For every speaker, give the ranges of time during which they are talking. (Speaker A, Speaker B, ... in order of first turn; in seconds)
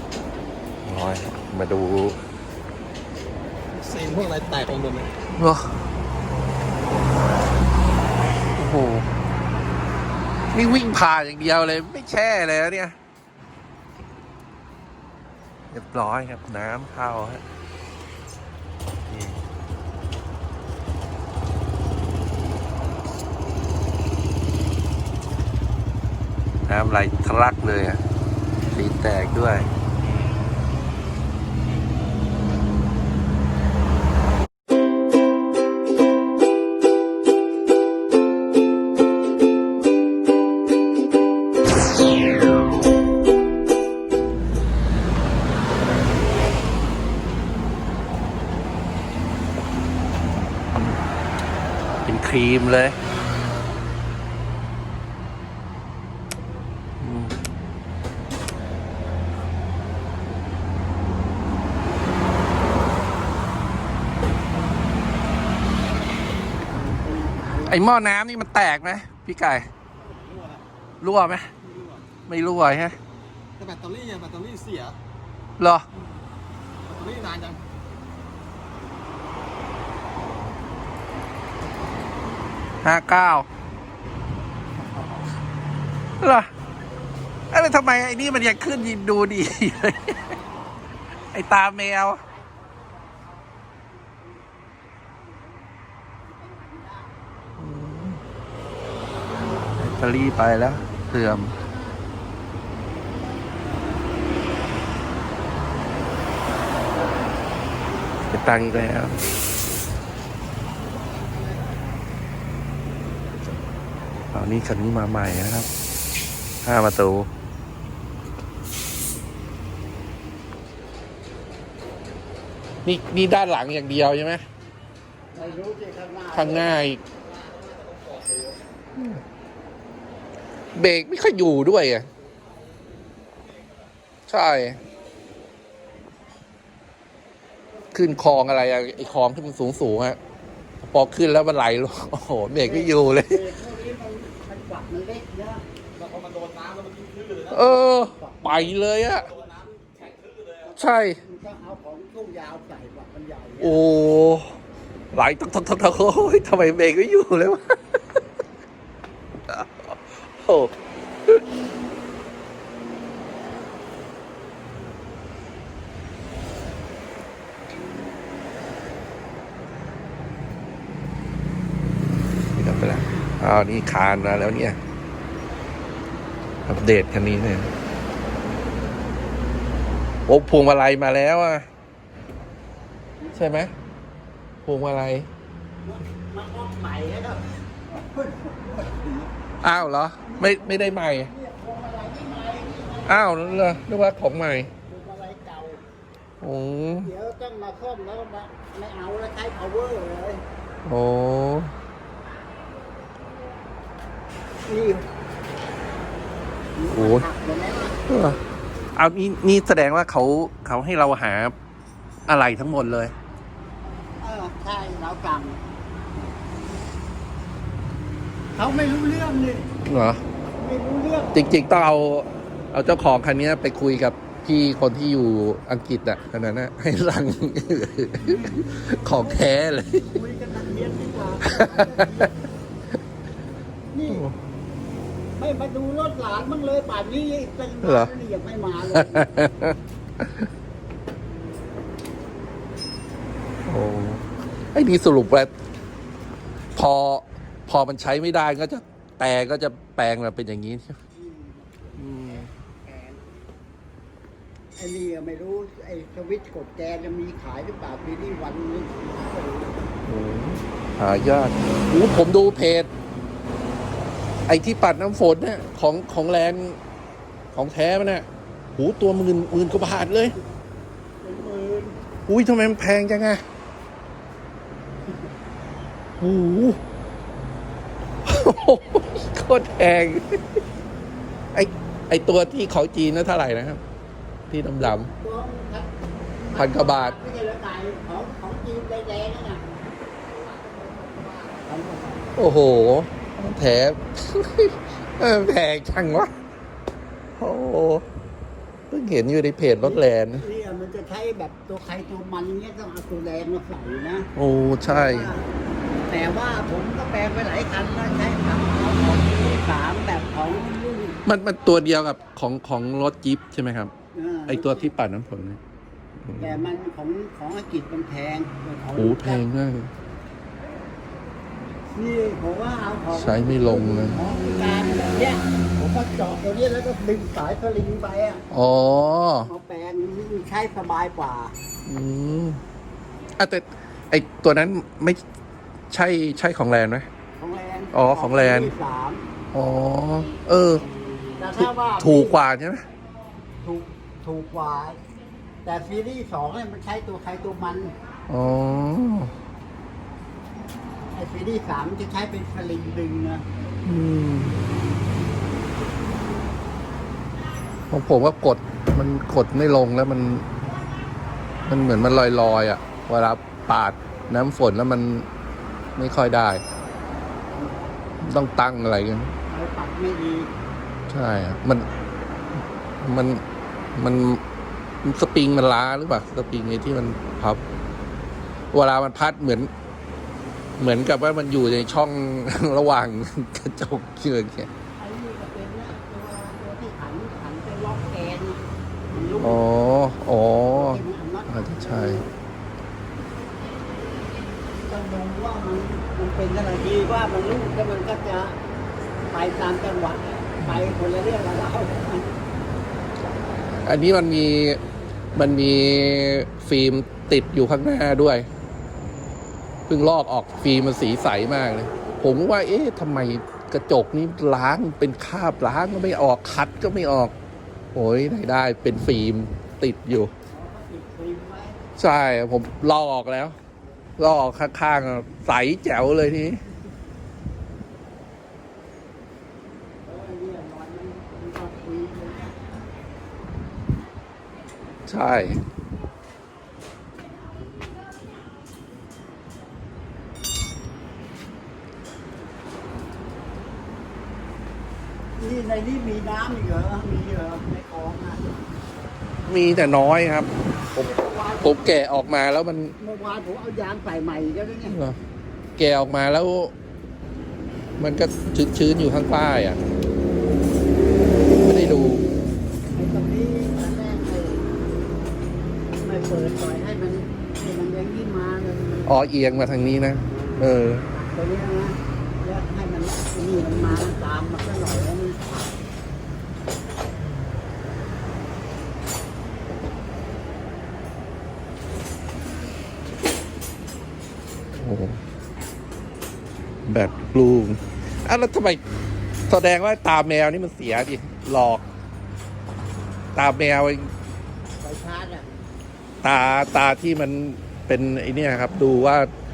Speaker A: 0.8-2.2, 5.4-5.7, 8.6-9.1, 10.5-12.9, 15.7-17.4, 19.1-19.4, 26.7-28.0, 28.7-29.7, 52.0-53.0, 57.0-57.4, 67.7-69.7, 71.0-71.5, 72.3-73.0, 75.6-75.8, 82.8-83.5, 86.2-86.5, 87.5-90.2, 91.3-92.2, 97.6-98.2, 99.8-101.5, 108.3-109.2, 114.3-115.7, 116.6-117.3, 122.8-124.4, 126.3-127.0, 130.7-132.1, 134.3-134.8, 137.9-140.2, 140.8-143.4, 147.5-149.3, 150.8-151.2, 153.6-154.5, 155.1-158.0, 159.5-160.7, 172.5-174.8, 176.7-177.7, 180.3-181.7, 183.3-183.7, 184.6-185.3, 189.6-191.3, 193.1-194.7, 196.4-197.1, 200.8-201.7, 206.9-207.2, 208.1-208.4, 208.9-211.5, 212.3-213.1, 219.8-220.2, 221.3-230.1, 231.4-232.3, 234.1-234.3, 237.8-238.1, 238.9-240.5, 243.7-245.5, 246.8-250.9, 252.0-252.4, 260.0-262.9, 264.5-266.8, 267.5-270.3, 272.2-273.4, 276.2-276.8, 278.2-280.6, 281.5-283.8, 284.5-285.1, 286.5-287.2, 292.4-296.3, 297.4-298.0, 298.9-300.4, 304.4-305.3, 311.2-313.9, 314.5-315.6, 316.2-316.6, 318.9-319.9, 323.1-324.2, 328.5-329.5, 331.9-332.6, 333.4-335.2, 335.9-337.1, 337.9-338.7, 339.5-340.8, 341.6-342.8, 348.3-349.3, 353.8-354.6, 357.9-360.4, 361.7-365.3, 366.0-366.6, 368.2-369.3, 371.1-371.9, 373.0-373.4, 373.9-374.4, 375.0-377.6, 378.7-379.7, 380.8-384.7, 389.4-392.2, 400.6-400.9, 403.8-404.8, 405.4-408.4, 409.9-417.3, 417.9-420.3, 422.0-423.6, 424.2-426.6, 435.1-435.6, 449.5-451.1, 451.6-452.9, 454.9-455.2, 455.8-456.7, 458.0-459.8, 461.6-462.2, 469.1-471.0, 484.8-485.2, 486.8-488.8, 489.5-491.8, 493.3-494.1, 496.2-499.3
Speaker B: 3.7-5.1, 70.0-70.6, 71.6-72.1, 73.6-75.0, 76.8-77.6, 127.2-128.6, 145.9-147.8, 149.1-150.7
Speaker C: 66.7-67.8, 90.1-91.2, 92.2-97.2, 125.3-126.8, 142.6-145.6, 148.0-148.8, 150.7-153.8, 185.8-189.3, 190.2-193.8, 194.8-195.8, 196.9-200.4, 204.7-205.1, 206.8-207.9, 214.2-216.3, 218.5-219.7, 220.6-221.3, 228.2-229.5, 230.0-232.4, 233.9-234.2, 235.3-239.3, 251.1-253.3, 254.8-259.8, 271.2-272.0, 284.8-285.9, 286.4-289.7, 290.3-292.4, 299.8-304.3, 304.8-305.4, 306.1-311.2, 314.1-314.9, 316.4-319.4, 321.9-328.4, 329.4-331.5, 337.4-339.2, 341.4-342.4, 343.6-345.0, 345.6-347.9, 351.1-353.4, 367.4-368.0, 369.5-370.5, 385.0-389.6, 390.7-392.3, 394.9-398.6, 399.3-402.3, 420.5-421.8, 430.0-432.6, 445.4-448.6, 450.9-452.0, 453.0-455.0, 462.9-464.8, 466.0-469.1, 471.1-475.8, 494.8-495.6